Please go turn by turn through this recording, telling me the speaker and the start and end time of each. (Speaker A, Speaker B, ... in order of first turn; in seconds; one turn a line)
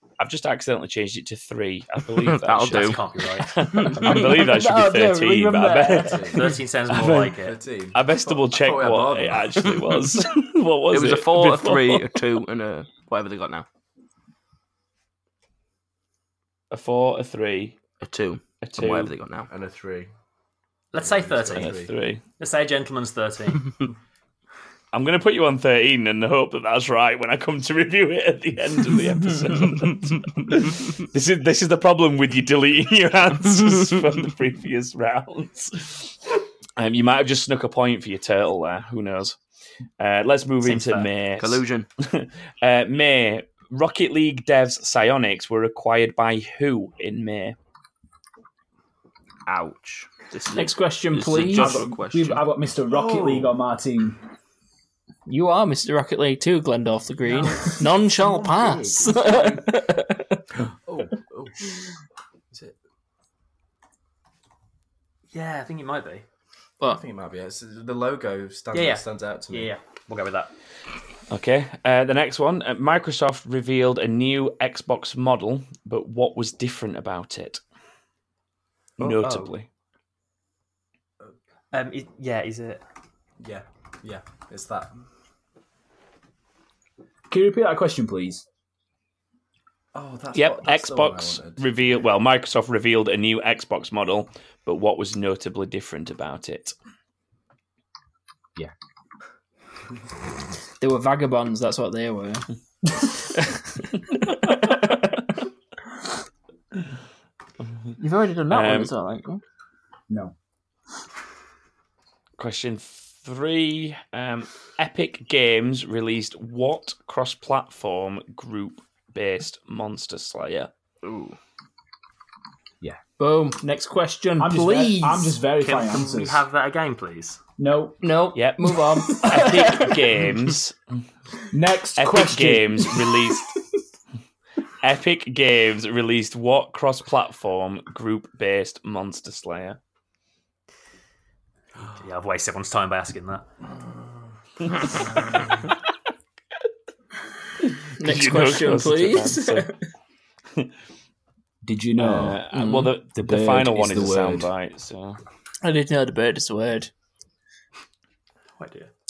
Speaker A: 0.2-6.3
Speaker B: 2.1-3.1
Speaker C: 2.6-4.0
Speaker B: 3.8-4.4
Speaker D: 4.0-6.2
Speaker E: 5.9-9.7
Speaker C: 6.3-7.6
Speaker A: 6.9-7.4
Speaker A: 7.9-12.2
Speaker B: 10.9-13.7
Speaker A: 16.7-17.8
Speaker B: 18.0-19.5
Speaker A: 18.6-19.1
Speaker E: 19.5-20.1
Speaker C: 20.9-21.8
Speaker E: 21.0-21.9
Speaker A: 21.5-22.2
Speaker C: 22.4-23.7
Speaker A: 24.9-36.1
Speaker A: 36.8-39.4
Speaker A: 40.0-47.5
Speaker C: 40.6-41.1
Speaker B: 41.4-41.9
Speaker B: 49.5-52.5
Speaker D: 50.5-51.7
Speaker F: 51.5-54.2
Speaker E: 52.9-53.5
Speaker D: 55.3-60.4
Speaker C: 57.3-58.9
Speaker E: 58.6-59.5
Speaker E: 60.9-61.6
Speaker C: 65.3-66.2
Speaker E: 66.8-69.7
Speaker C: 68.7-70.5
Speaker A: 71.3-77.6
Speaker A: 79.0-79.7
Speaker C: 79.0-79.5
Speaker C: 81.7-82.8
Speaker E: 83.4-84.9
Speaker F: 87.3-88.4
Speaker E: 89.9-91.7
Speaker A: 90.3-96.7
Speaker D: 100.8-102.5
Speaker D: 103.0-103.4
Speaker D: 104.3-105.0
Speaker D: 108.0-109.4
Speaker A: 108.5-108.9
Speaker F: 110.1-110.3
Speaker A: 112.4-120.7
Speaker B: 121.0-121.3
Speaker D: 123.2-125.4
Speaker F: 124.4-126.4
Speaker C: 125.6-127.4
Speaker F: 127.6-128.0
Speaker D: 128.0-129.9
Speaker A: 128.3-130.8
Speaker F: 131.5-133.3
Speaker A: 132.0-133.5
Speaker A: 134.8-139.8
Speaker C: 142.0-143.4
Speaker A: 147.6-149.7
Speaker D: 148.0-149.7
Speaker F: 151.6-152.4
Speaker A: 152.0-155.2
Speaker D: 152.5-152.9
Speaker F: 153.1-154.5
Speaker D: 155.6-156.9
Speaker C: 158.6-158.9